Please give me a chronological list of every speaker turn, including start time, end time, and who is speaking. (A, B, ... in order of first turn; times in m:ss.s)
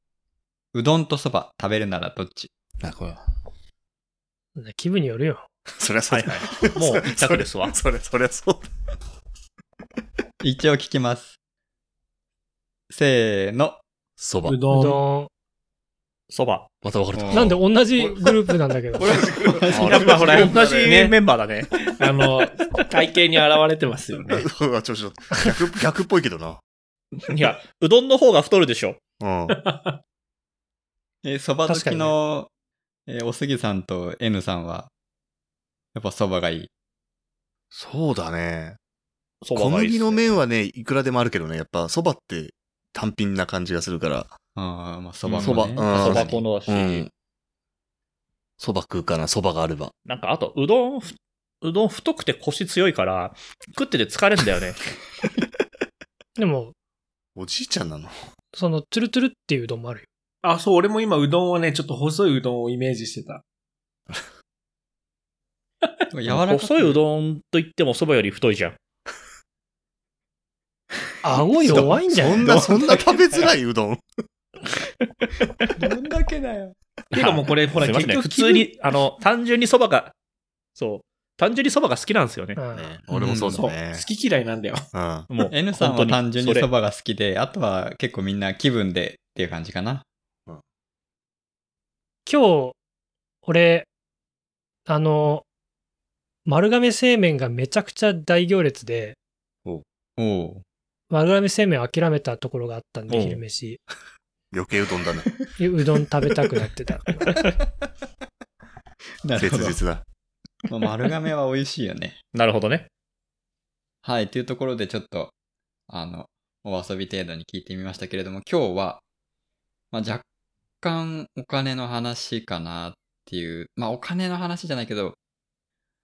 0:00.7-0:02.5 A
0:02.8-0:03.2 B
0:04.6-0:05.5 C
0:05.7-0:08.7 B
0:06.1-0:07.8 D
0:10.4-0:11.4 A
0:12.9-0:13.8 A
0:14.2-0:14.6 B
0:14.4-0:15.0 E
0:14.7-0:15.3 C
0:16.3-0:16.7 D
0:16.8-0:18.2 B
0:17.1-0:17.5 A
0:17.3-0:19.2 C
0:19.0-0:20.9 A
0:19.7-0:20.7 B
0:19.7-0:21.2 E
0:19.7-0:22.7 D
0:22.0-0:24.5 E
0:23.3-0:23.6 D
0:24.3-0:26.6 B
0:27.2-0:29.0 D
0:29.2-0:29.6 B
0:29.5-0:29.9 E
0:31.2-0:32.5 A
0:31.7-0:32.1 C
0:33.1-0:34.9 A
0:35.9-0:36.7 A
0:37.7-0:38.8 B
0:39.4-0:40.3 D
0:39.5-0:44.4 B
0:44.5-0:46.4 A
0:45.2-0:47.0 D
0:45.4-0:47.1 B
0:48.6-0:49.9 B
0:50.0-0:54.8 D
0:56.4-0:56.7 C
0:57.4-0:58.1 B
0:58.5-1:00.1 C
1:00.4-1:03.4 E
1:06.1-1:07.0 A
1:06.3-1:08.8 D
1:11.2-1:12.5 C
1:11.6-1:14.0 B
1:12.4-1:13.4 A
1:15.2-1:15.7 D
1:15.8-1:16.8 A
1:17.1-1:18.7 E
1:17.2-1:20.1 D
1:20.8-1:22.6 D
1:22.6-1:23.0 C
1:22.7-1:24.0 B
1:23.1-1:23.7 A
1:23.5-1:24.8 E
1:24.9-1:25.3 B
1:25.3-1:26.7 D
1:25.4-1:30.0 A
1:32.2-1:32.8 C
1:33.4-1:33.9 C
1:34.9-1:35.4 C
1:36.4-1:39.2 C
1:40.2-1:40.6 A
1:41.1-1:43.8 C
1:43.1-1:43.4 D
1:44.5-1:45.3 B
1:45.6-1:47.4 C
1:47.3-1:47.5 D
1:49.2-1:49.8 A
1:49.4-1:50.0 B
1:50.7-1:52.2 A
1:52.3-1:52.9 D
1:54.0-1:55.3 A
1:55.9-1:59.0 A
1:59.9-2:00.2 A
2:00.8-2:05.2 A